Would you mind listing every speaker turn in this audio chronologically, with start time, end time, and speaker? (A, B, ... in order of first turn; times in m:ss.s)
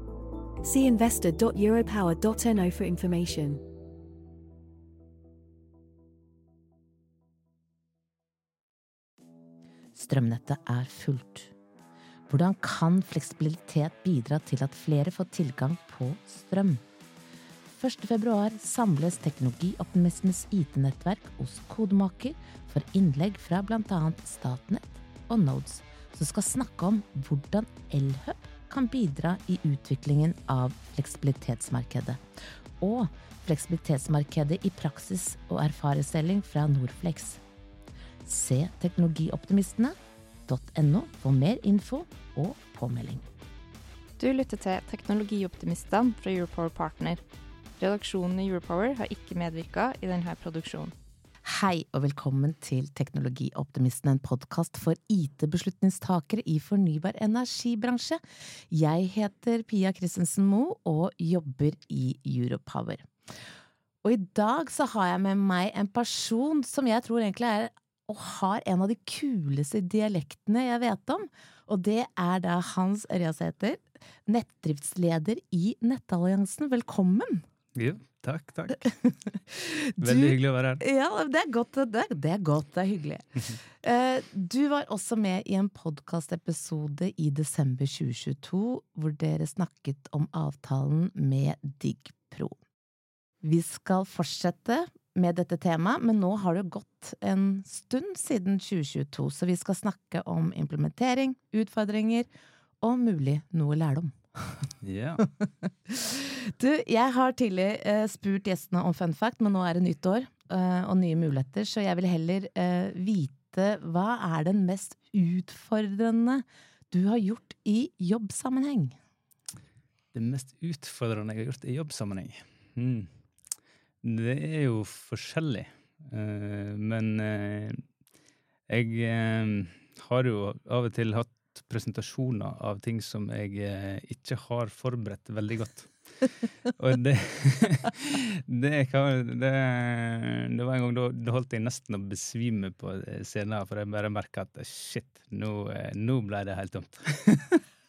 0:00.6-0:03.6 A
0:10.0-0:11.5 B
0:12.3-0:16.8 B
0:17.8-0:32.2 B
0:32.8-0:37.4 B
0:38.3-0:40.0 B
0:40.5-0:43.2 B
0:44.2-0:47.2 C
0:47.8-0:50.9 C
0:51.4-1:03.1 B
1:04.0-1:17.4 B
1:17.8-1:18.9 D
1:18.8-1:32.6 B
1:20.0-1:20.8 D
1:33.4-1:42.3 B
1:42.8-1:44.7 B
1:44.8-1:45.2 D
1:45.9-1:59.0 B
2:00.1-2:03.1 D
2:04.0-2:07.8 D
2:08.7-2:27.6 D